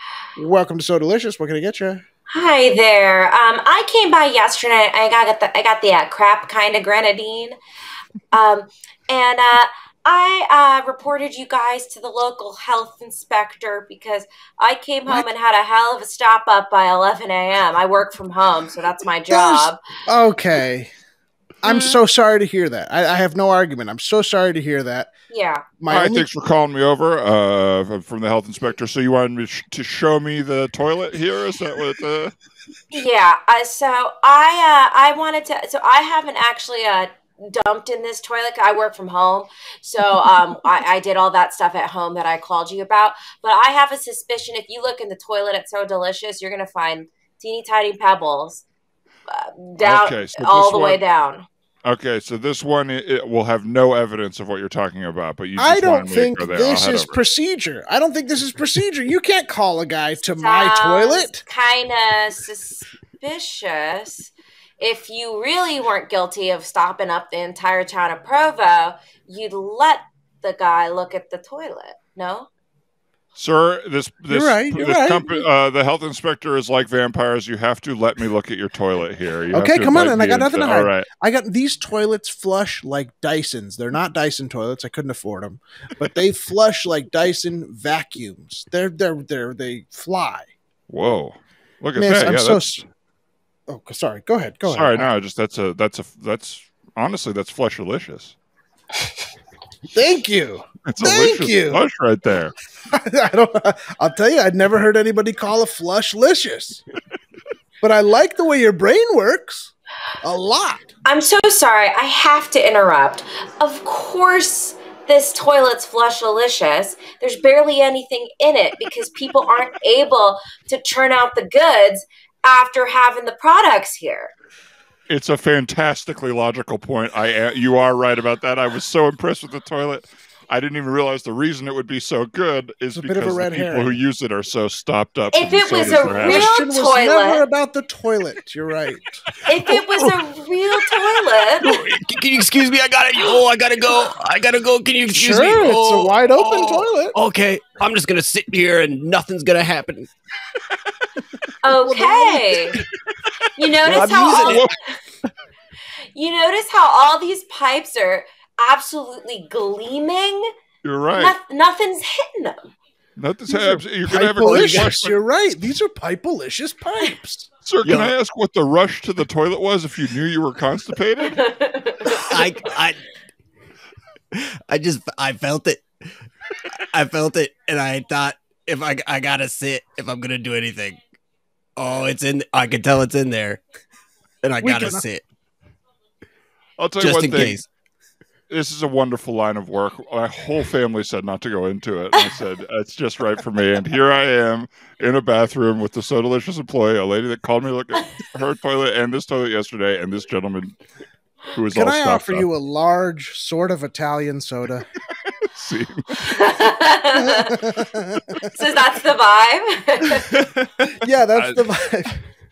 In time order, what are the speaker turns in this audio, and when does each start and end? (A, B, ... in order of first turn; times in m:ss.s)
0:00.4-0:02.0 A
0:02.3-0:07.6 B
0:08.3-0:19.8 B
0:19.2-0:20.9 A
0:21.6-0:25.1 A
0:21.6-0:21.9 B
0:25.3-0:25.8 B
0:25.8-0:26.2 A
0:25.9-0:32.3 C
0:32.9-0:48.6 B
0:49.3-0:51.4 B
0:49.8-0:51.0 C
0:51.8-0:57.2 C
0:55.6-1:01.4 A
1:00.3-1:12.5 B
1:13.4-1:21.1 C
1:14.3-1:15.5 A
1:19.5-1:30.5 A
1:30.9-1:32.8 C
1:32.0-1:32.8 A
1:33.7-1:35.1 A
1:34.6-1:38.3 C
1:39.9-1:41.8 A
1:40.8-1:42.6 C
1:42.9-1:46.8 A
1:47.8-1:50.9 A
1:51.0-2:04.3 B
2:05.1-2:16.5 C
2:13.0-2:14.0 A
2:15.3-2:17.4 B
2:16.1-2:19.2 A
2:19.5-2:21.7 B
2:19.5-2:21.0 D
2:21.6-2:30.1 D
2:25.1-2:27.1 A
2:31.6-2:32.8 B
2:31.9-2:32.4 A
2:33.6-2:35.0 B
2:33.8-2:34.6 D
2:33.9-2:34.8 C
2:36.1-2:40.4 B
2:40.8-2:41.4 C
2:41.1-2:42.7 B
2:43.2-2:45.2 C
2:43.5-2:47.5 A
2:44.4-2:45.0 D
2:47.6-2:51.4 C
2:47.8-2:48.1 D
2:51.3-2:52.3 B
2:52.2-2:53.0 D
2:54.3-2:56.0 D
2:56.9-3:01.0 D
3:01.8-3:03.6 D
3:04.4-3:05.2 D
3:04.6-3:05.0 A
3:06.8-3:07.6 C
3:07.0-3:07.7 D
3:08.5-3:20.8 C
3:21.5-3:22.5 C
3:21.7-3:24.9 A
3:25.5-3:26.2 C
3:26.2-3:27.6 B
3:27.1-3:28.4 A
3:28.4-3:30.3 B
3:30.3-3:30.6 D
3:31.0-3:32.1 A
3:31.3-3:31.6 C